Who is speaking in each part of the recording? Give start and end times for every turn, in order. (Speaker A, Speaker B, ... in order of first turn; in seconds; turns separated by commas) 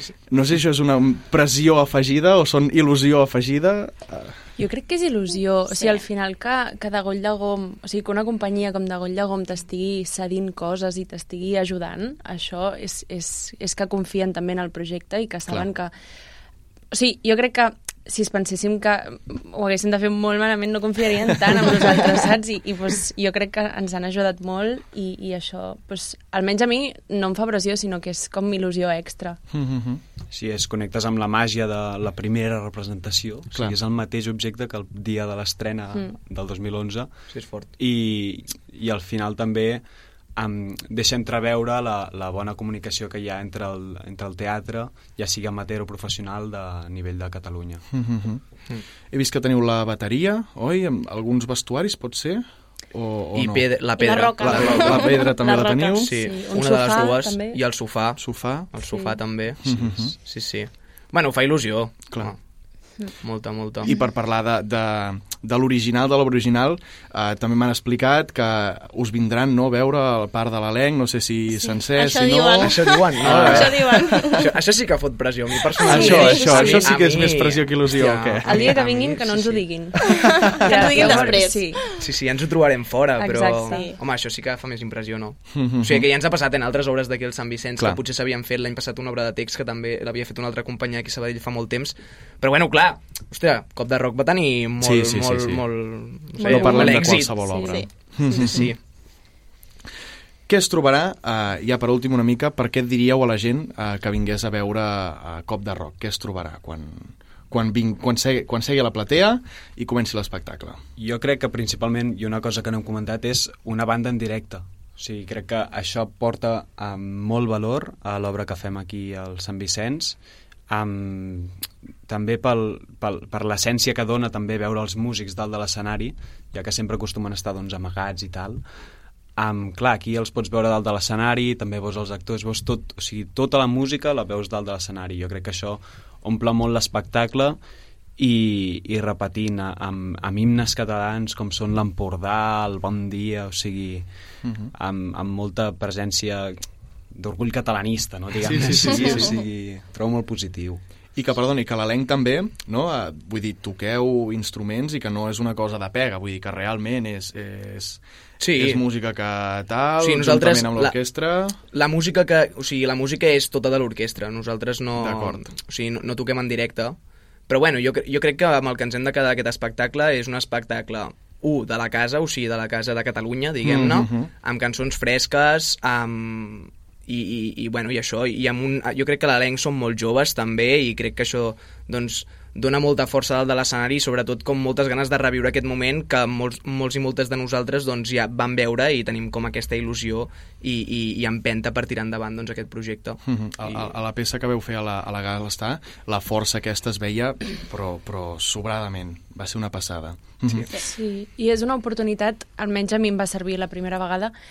Speaker A: 0.3-4.3, Speaker B: 4.6-15.9, Speaker C: 5.7-6.0, Speaker B: 16.9-29.4, Speaker A: 29.5-30.0, Speaker D: 30.3-47.8, Speaker E: 37.3-37.7, Speaker A: 47.9-48.4, Speaker A: 49.1-53.7, Speaker E: 53.4-55.2, Speaker C: 54.0-56.1, Speaker A: 54.4-56.1, Speaker E: 56.0-62.4, Speaker B: 56.1-57.6, Speaker A: 58.2-58.7, Speaker B: 58.8-59.2, Speaker A: 59.6-60.1, Speaker E: 63.1-63.9, Speaker A: 63.9-74.4, Speaker C: 72.0-74.4, Speaker E: 72.6-79.6, Speaker A: 75.9-78.8, Speaker B: 75.9-77.0, Speaker B: 78.4-80.1, Speaker C: 80.1-82.0, Speaker B: 80.6-81.8, Speaker E: 80.8-81.5, Speaker E: 82.0-98.8, Speaker B: 83.2-84.0, Speaker C: 83.7-84.0, Speaker A: 85.5-86.1, Speaker A: 94.8-95.6, Speaker B: 96.4-98.6, Speaker A: 96.5-98.7, Speaker A: 100.5-110.8, Speaker D: 111.0-128.7, Speaker D: 129.4-137.6, Speaker D: 138.2-144.1, Speaker A: 144.4-144.7, Speaker D: 144.7-146.6, Speaker D: 147.1-150.8, Speaker A: 148.4-149.3, Speaker A: 151.2-158.0, Speaker E: 158.4-158.8, Speaker A: 158.5-161.6, Speaker E: 160.0-161.0, Speaker E: 161.7-167.0, Speaker A: 165.0-165.4, Speaker E: 167.5-193.9, Speaker A: 173.6-174.3, Speaker A: 193.2-200.7, Speaker B: 200.8-204.3